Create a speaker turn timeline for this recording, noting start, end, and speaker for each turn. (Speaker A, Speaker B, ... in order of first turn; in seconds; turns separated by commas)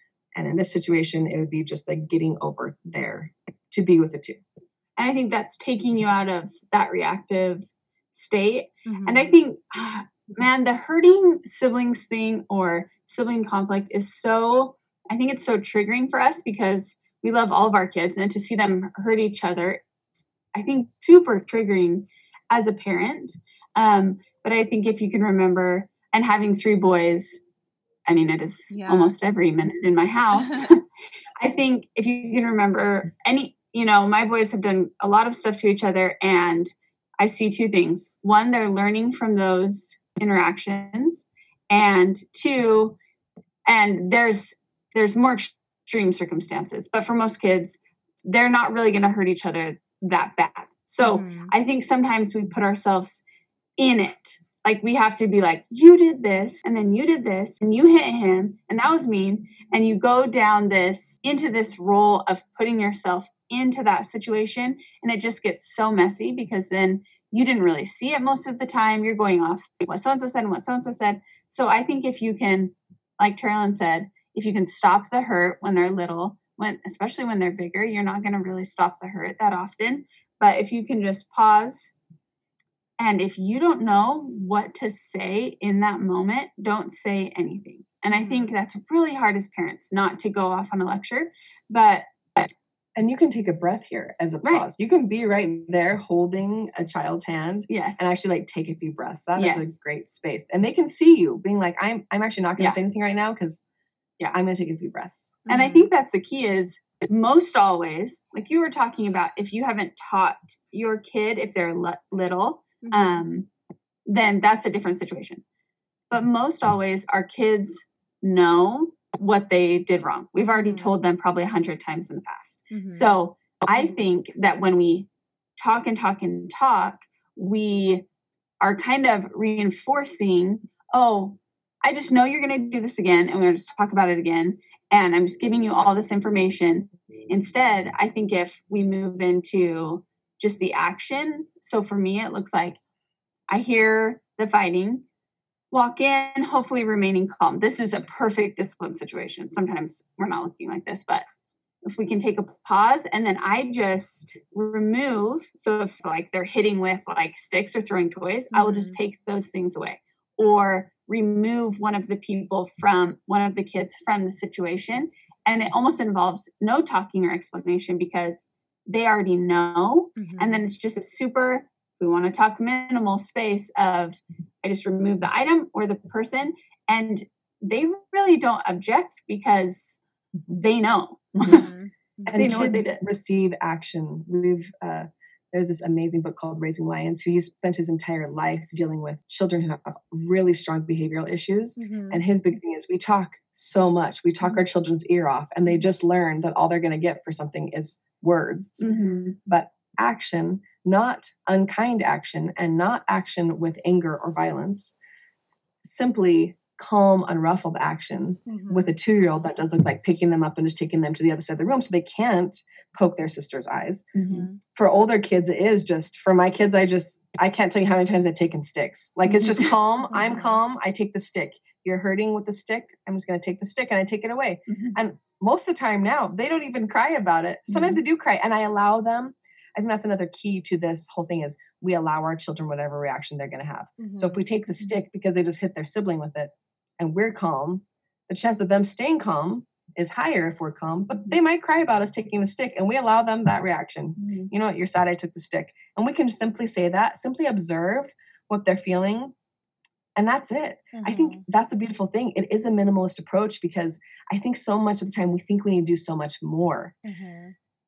Speaker A: 0.3-4.4, Speaker B: 5.0-19.8, Speaker C: 8.8-9.3, Speaker B: 20.5-27.4, Speaker B: 28.1-30.8, Speaker C: 28.7-29.1, Speaker B: 31.4-43.0, Speaker B: 43.6-53.2, Speaker C: 51.0-51.5, Speaker B: 53.8-81.9, Speaker B: 83.0-92.5, Speaker C: 88.1-88.5, Speaker A: 93.0-103.6, Speaker B: 97.7-98.1, Speaker B: 99.3-99.7, Speaker A: 104.2-105.5, Speaker C: 105.5-105.9, Speaker B: 105.5-113.5, Speaker C: 112.8-113.2, Speaker B: 114.0-115.4, Speaker B: 116.1-125.1, Speaker C: 120.5-120.9, Speaker C: 122.7-123.1, Speaker B: 125.6-128.0, Speaker B: 128.6-142.8, Speaker B: 143.5-145.0, Speaker B: 145.7-151.2, Speaker B: 151.8-179.9, Speaker C: 158.5-159.0, Speaker C: 170.2-170.6, Speaker B: 180.5-181.7, Speaker A: 181.4-181.7, Speaker C: 181.4-182.4, Speaker A: 182.2-198.9, Speaker B: 182.3-183.0, Speaker C: 191.8-192.2, Speaker B: 198.8-199.4, Speaker A: 199.4-204.9, Speaker A: 205.8-214.1, Speaker C: 208.5-208.9, Speaker B: 214.1-214.5, Speaker C: 214.3-214.6, Speaker A: 214.7-249.3, Speaker C: 220.1-220.6, Speaker B: 224.7-225.0, Speaker B: 227.7-228.0, Speaker C: 234.0-234.4, Speaker B: 244.2-244.5, Speaker A: 250.2-256.9, Speaker C: 250.9-251.4, Speaker C: 257.0-257.5